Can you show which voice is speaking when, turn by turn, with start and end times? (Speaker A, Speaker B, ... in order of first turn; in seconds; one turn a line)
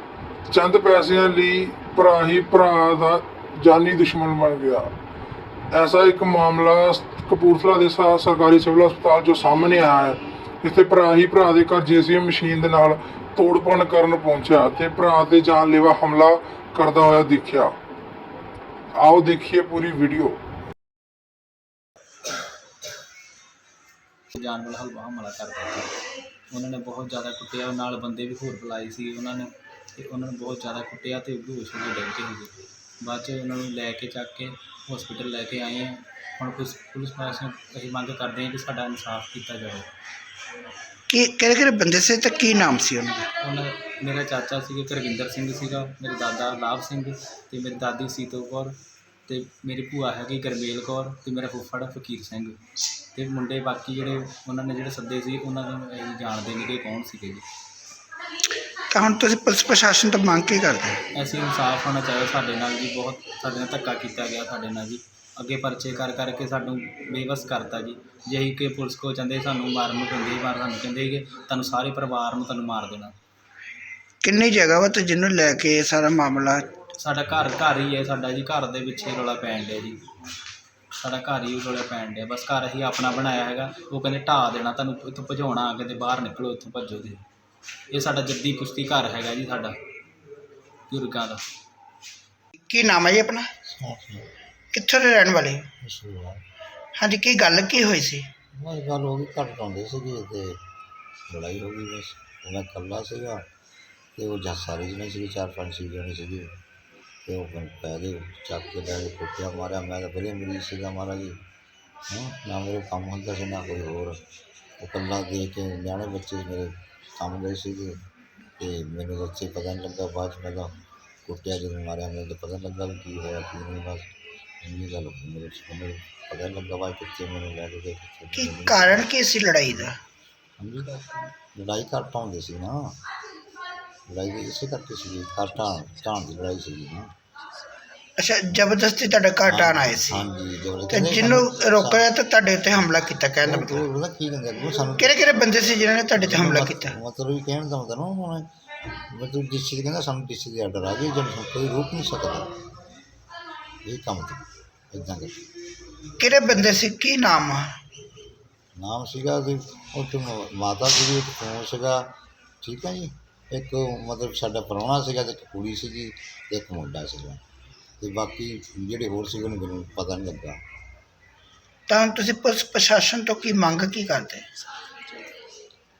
Speaker A: 0.5-4.9
Speaker A: 5.7-17.7
Speaker A: 18.9-20.4
Speaker B: 24.3-25.9
Speaker B: 26.5-39.9
Speaker C: 41.1-43.3
Speaker B: 43.4-52.6
Speaker B: 53.1-57.4
Speaker C: 58.9-61.0
Speaker B: 61.1-73.1
Speaker C: 74.2-76.7
Speaker B: 77.0-80.0
Speaker B: 81.0-87.2
Speaker B: 87.9-89.7
Speaker B: 90.9-91.4
Speaker C: 92.6-93.5
Speaker D: 93.6-94.3
Speaker C: 94.7-95.7
Speaker D: 95.8-96.4
Speaker C: 96.9-98.3
Speaker D: 98.5-100.6
Speaker D: 101.2-103.5
Speaker D: 104.2-106.6
Speaker D: 107.2-111.4
Speaker D: 112.1-114.2
Speaker D: 114.8-118.0
Speaker D: 118.6-124.1
Speaker D: 124.6-129.1
Speaker C: 128.3-130.0
Speaker D: 130.6-133.0
Speaker D: 134.1-137.1
Speaker C: 138.2-140.2
Speaker D: 139.4-142.1
Speaker C: 140.9-143.8
Speaker D: 143.4-145.5
Speaker C: 145.0-146.9
Speaker D: 146.2-148.5
Speaker D: 149.1-152.5
Speaker D: 153.8-155.4
Speaker C: 156.2-157.6
Speaker D: 158.8-167.4
Speaker D: 168.0-170.6
Speaker C: 171.9-174.4